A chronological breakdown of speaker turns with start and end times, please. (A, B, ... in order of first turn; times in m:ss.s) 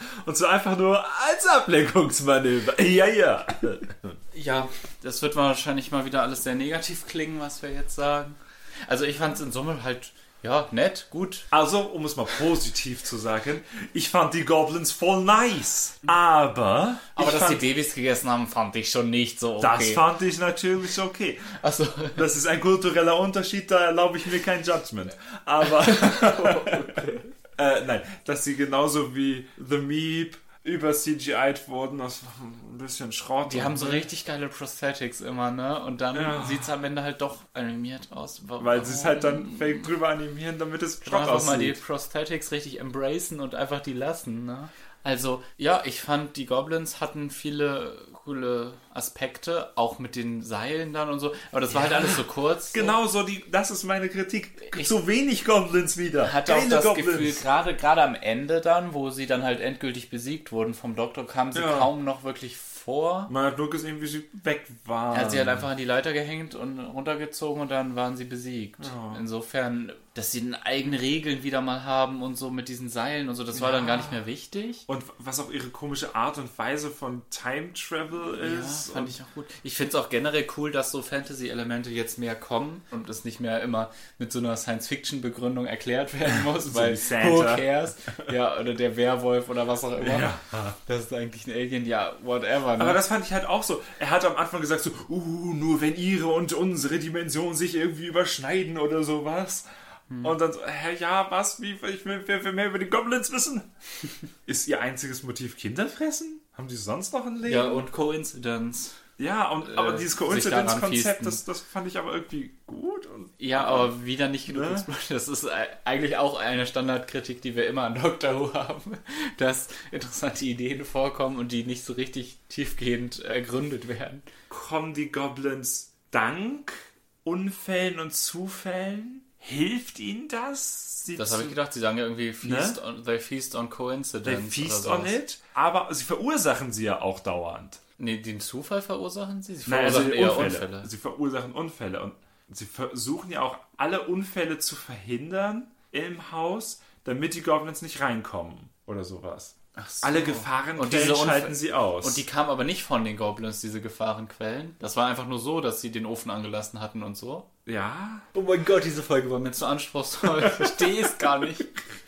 0:00.2-0:04.2 A
0:04.3-0:11.5 B
0:11.5-0:17.6 A
0:17.1-0:20.0 B
0:19.6-0:21.6 A
0:21.5-0:22.2 B
0:22.1-0:27.0 A
0:25.6-0:27.3 B
0:27.6-0:34.1 A
0:33.4-0:39.8 B
0:36.1-0:36.7 A
0:38.6-0:41.8 A
0:41.0-0:53.0 B
0:51.7-0:57.4 A
0:56.2-1:03.3 B
1:01.5-1:01.9 A
1:03.3-1:05.6 A
1:05.1-1:14.8 B
1:08.8-1:09.2 A
1:13.5-1:14.2 A
1:14.9-1:19.1 A
1:18.4-1:30.3 B
1:26.2-1:27.7 A
1:30.0-1:30.8 A
1:30.8-1:33.0 B
1:32.8-1:39.6 A
1:40.2-1:43.7 A
1:44.4-1:47.8 A
1:47.4-1:49.0 B
1:49.2-1:53.9 A
1:49.6-1:51.4 B
1:53.4-2:04.2 B
1:54.5-1:54.9 A
2:04.5-2:11.6 A
2:11.2-2:15.2 B
2:12.4-2:12.8 A
2:14.2-2:17.8 A
2:18.0-2:20.9 B
2:19.6-2:32.2 A
2:29.8-2:37.5 B
2:37.6-2:38.2 A
2:38.3-2:41.7 B
2:40.4-2:40.9 A